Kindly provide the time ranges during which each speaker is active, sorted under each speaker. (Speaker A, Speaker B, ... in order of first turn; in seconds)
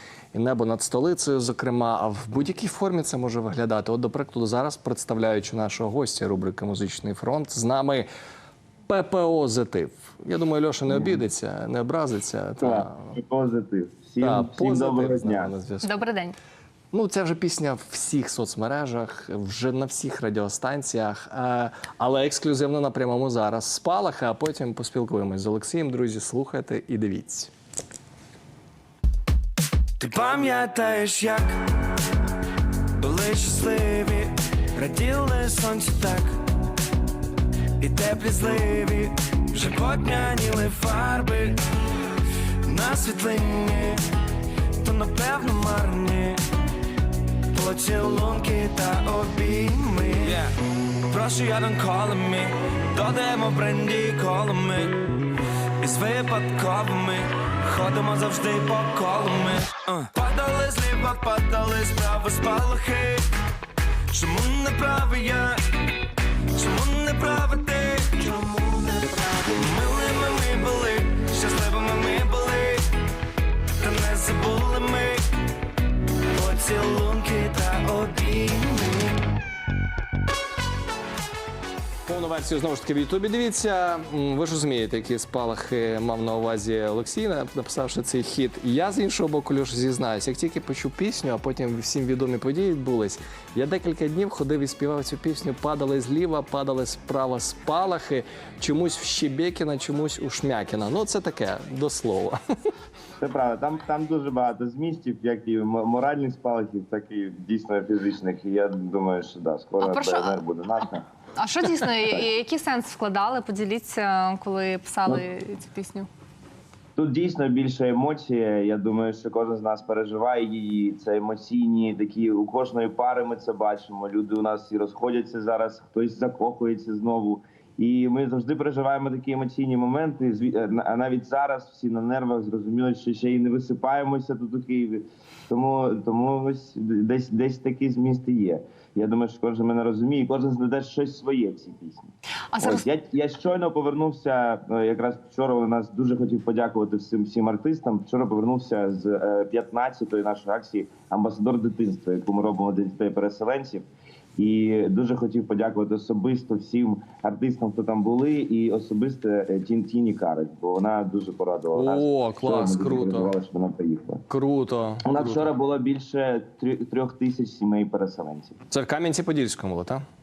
Speaker A: 0.3-8.1, 8.9-13.1, 14.2-15.9, 16.9-27.5, 82.0-102.4, 161.8-163.3, 164.3-165.5, 168.7-170.0
Speaker B: 10.9-11.2, 12.6-15.5, 103.2-111.1, 117.0-153.8, 154.4-164.2, 165.0-168.6
Speaker C: 15.8-16.4, 109.8-110.4, 111.4-116.1, 142.5-142.8
Speaker D: 30.0-31.5, 33.0-36.3, 37.8-41.6, 42.7-44.0, 44.8-46.4, 47.5-50.4, 51.1-55.0, 55.8-63.2, 64.1-65.6, 66.6-72.8, 73.8-75.2, 76.3-79.2